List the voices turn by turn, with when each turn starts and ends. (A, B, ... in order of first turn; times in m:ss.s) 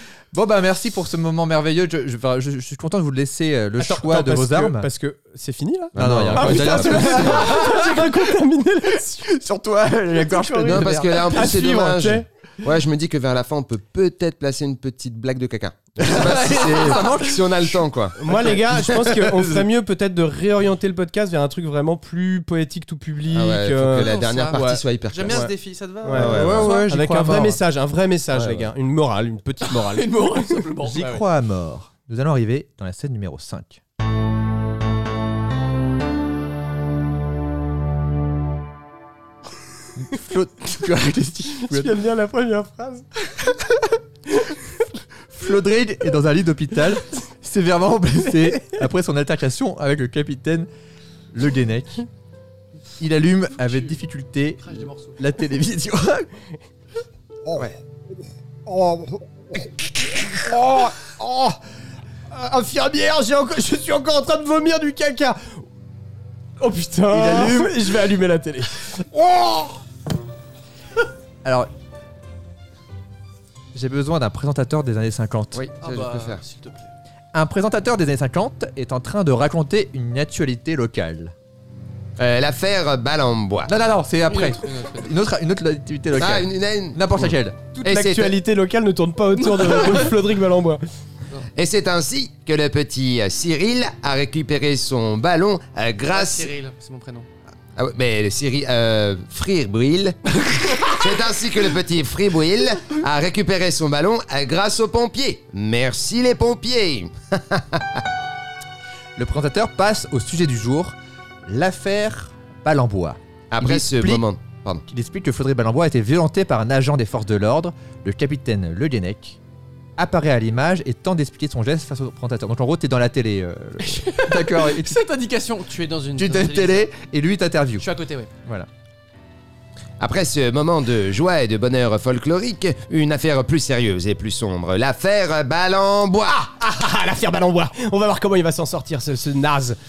0:00.3-0:04.9 A
0:03.8-0:09.3 B
0:05.9-0:07.5 C
0:06.0-0:08.3 A
0:06.9-0:07.3 D
0:09.3-0:11.3 A
0:10.1-0:12.3 B
0:10.7-0:18.2 C
0:16.0-0:19.6 A
0:18.2-0:30.1 B
0:23.3-0:25.5 C
0:24.0-0:26.7 D
0:26.1-0:26.7 C
0:26.2-0:27.6 A
0:28.3-0:28.7 C
0:29.7-0:31.2 D
0:30.8-0:33.8 A
0:40.0-0:42.0 A
0:41.6-0:43.1 B
0:45.3-0:50.7 A
0:51.3-0:52.1 A
0:53.0-0:56.3 A
0:53.6-0:54.0 D
0:54.6-0:55.2 D
0:58.7-1:01.6 B
1:02.3-1:05.6 B
1:06.6-1:09.8 B
1:07.1-1:07.9 A
1:11.4-1:11.7 A
1:13.7-1:15.6 A
1:15.5-1:16.4 C
1:15.8-1:16.9 D
1:17.3-1:21.3 A
1:22.2-1:23.7 C
1:23.7-1:27.6 A
1:24.3-1:25.2 D
1:26.1-1:28.4 C
1:27.7-1:30.8 B
1:31.5-1:36.5 C
1:36.1-1:37.3 D
1:37.8-1:48.0 C
1:40.6-1:40.9 D
1:49.2-1:51.0 A
1:51.5-1:54.2 A
1:53.5-1:54.8 C
1:54.9-1:59.4 A
2:00.0-2:05.0 A
2:03.8-2:06.9 D
2:06.2-2:07.9 A
2:07.8-2:08.3 D
2:10.0-2:16.4 C
2:16.3-2:19.8 B